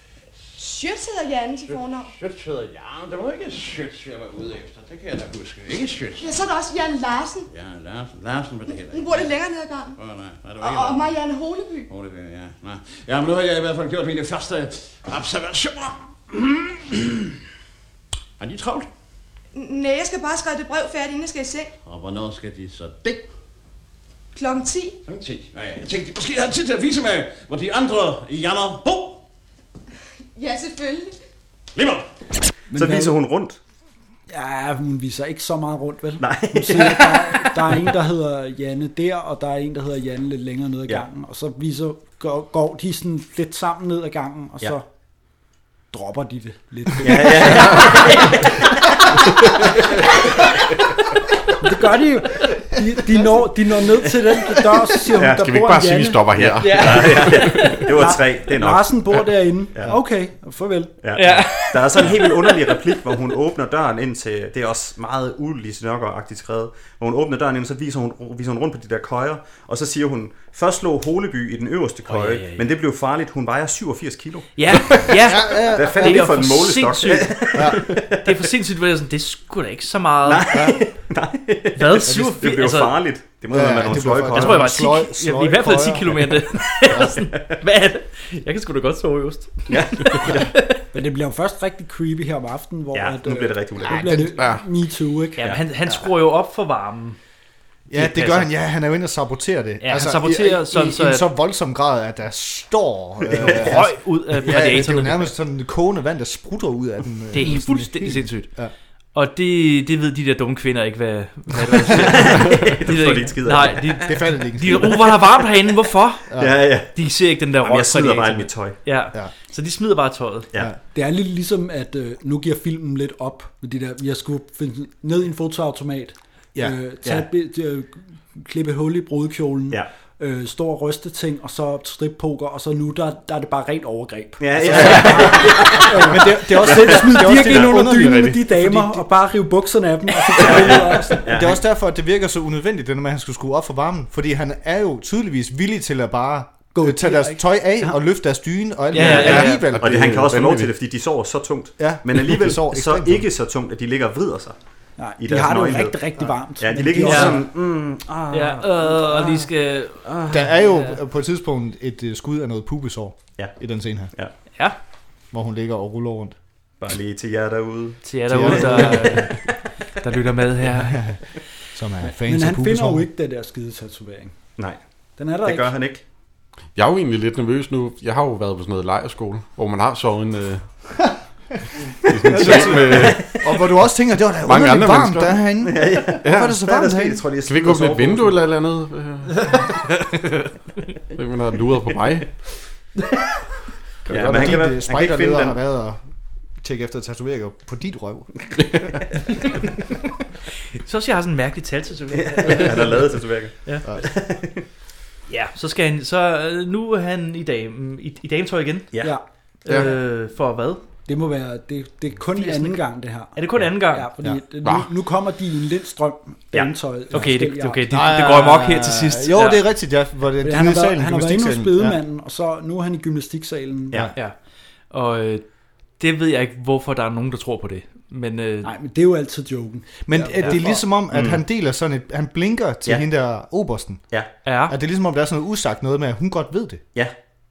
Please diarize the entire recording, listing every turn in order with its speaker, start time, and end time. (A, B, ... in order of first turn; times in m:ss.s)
0:00.6-0:02.1 A
0:01.7-0:06.3 B
0:06.2-0:07.5 A
0:07.5-0:09.2 B
0:08.7-0:10.0 A
0:10.0-0:11.1 B
0:10.6-0:11.9 A
0:11.9-0:17.3 B
0:18.4-0:18.9 B
0:19.5-0:21.7 A
0:21.8-0:23.2 B
0:24.3-0:25.0 A
0:25.0-0:29.2 B
0:30.4-0:31.1 A
0:31.7-0:32.1 B
0:32.7-0:33.1 C
0:32.7-0:33.6 D
0:34.3-0:44.8 C
0:36.2-0:37.7 D
0:45.9-0:48.3 C
0:47.0-0:48.8 D
0:47.7-0:48.4 E
0:51.6-0:56.2 C
0:55.2-0:55.4 D
0:55.3-0:57.4 F
0:56.3-1:00.0 D
0:56.6-0:58.1 E
0:56.8-0:57.2 C
0:57.8-1:00.9 C
1:01.0-1:18.5 D
1:01.1-1:02.8 E
1:12.1-1:12.6 E
1:14.6-1:20.7 E
1:15.2-1:16.4 G
1:17.5-1:17.8 G
1:20.2-1:24.7 D
1:21.8-1:23.0 E
1:23.5-1:27.1 G
1:24.3-1:30.8 E
1:26.9-1:27.5 D
1:29.7-1:30.5 D
1:30.9-1:35.4 C
1:32.9-1:34.2 D
1:34.3-1:34.6 F
1:35.4-1:37.2 E
1:37.9-1:48.7 G
1:37.9-1:38.5 E
1:39.8-1:41.3 E
1:43.3-1:43.8 D
1:43.5-1:45.3 E
1:44.4-1:44.7 D
1:47.3-1:48.6 E
1:49.1-2:00.5 E
1:52.0-1:55.5 D
1:54.0-1:55.0 G
1:56.3-1:56.6 G
1:56.4-1:56.9 D
1:57.5-1:58.8 D
2:00.9-2:21.2 C
2:14.4-2:17.7 D
2:14.7-2:18.8 G
2:20.4-2:21.6 D
2:21.3-2:30.2 G
2:26.7-2:27.9 C
2:28.9-2:29.7 E
2:28.9-2:34.6 D
2:29.2-2:30.7 F
2:31.8-2:33.2 G
2:35.0-2:37.4 C
2:35.2-2:39.5 D
2:37.0-2:37.5 E
2:38.3-2:40.1 E
2:40.0-2:40.4 D
2:40.3-2:44.1 G
2:40.6-2:41.0 E
2:45.3-2:46.3 G
2:46.8-2:49.5 D
2:48.0-2:49.4 E
2:48.3-2:49.3 G
2:50.0-2:51.2 E
2:50.8-2:51.2 G
2:51.7-2:53.1 G
2:52.0-2:54.4 C
2:55.2-2:55.7 C
2:55.4-2:56.0 D
2:56.8-3:01.1 F
3:02.0-3:03.3 F
3:02.2-3:07.2 G
3:02.3-3:03.4 D
3:04.4-3:05.5 F
3:05.6-3:08.4 D
3:06.2-3:06.6 F
3:07.4-3:09.5 F
3:11.1-3:12.4 F
3:14.1-3:15.6 D
3:14.1-3:16.0 G
3:14.1-3:14.4 F
3:16.6-3:18.5 G
3:20.8-3:23.1 E
3:22.1-3:24.6 D
3:25.3-3:30.8 E
3:28.9-3:29.2 D
3:29.0-3:30.0 C
3:29.7-3:29.9 F
3:31.0-3:37.8 C
3:32.3-3:34.2 E
3:34.6-3:34.9 F
3:37.1-3:39.7 E
3:37.9-3:42.0 G
3:40.4-3:44.1 C
3:44.1-3:48.7 E
3:48.6-3:50.8 C
3:50.0-3:56.8 G
3:51.1-3:51.4 D
3:54.4-3:54.8 E